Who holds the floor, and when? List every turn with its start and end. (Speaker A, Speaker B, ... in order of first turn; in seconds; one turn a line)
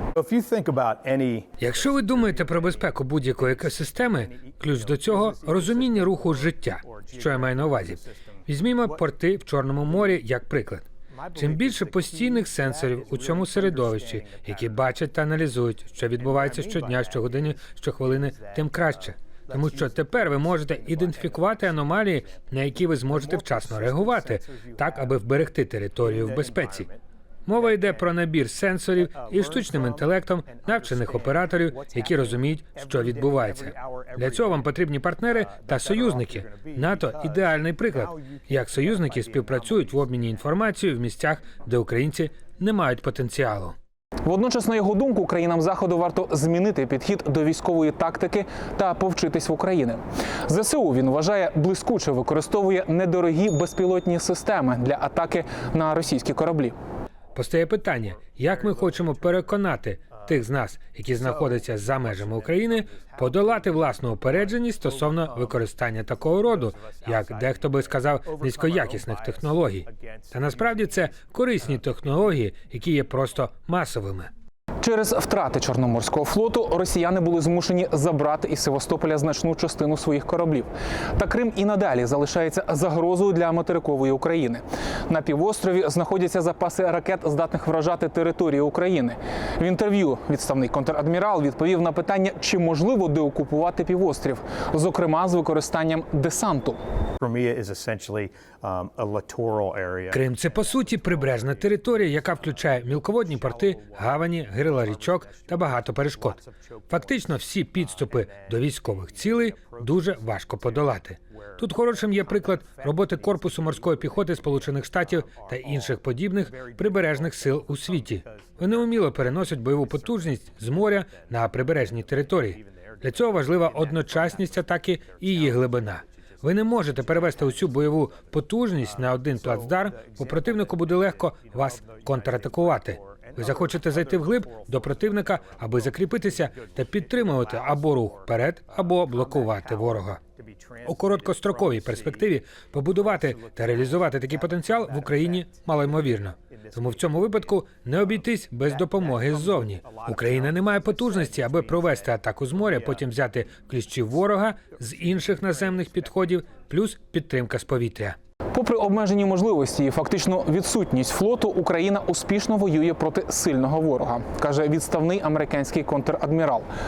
Speaker A: 0.2-9.1
Speaker B: 1.6-26.9
Speaker A: 9.8-10.2
Speaker A: 11.1-15.0
Speaker A: 16.1-25.2
Speaker A: 26.0-27.0
Speaker B: 27.5-43.8
Speaker A: 27.6-28.2
Speaker A: 29.0-34.8
Speaker A: 35.3-40.5
Speaker C: 44.2-56.8
Speaker B: 57.4-74.3
Speaker A: 58.0-60.4
Speaker A: 61.1-71.9
Speaker C: 74.8-96.8
Speaker A: 97.2-153.3
Speaker B: 100.1-140.2
Speaker B: 140.8-158.2
Speaker A: 154.5-156.5
Speaker C: 158.5-166.7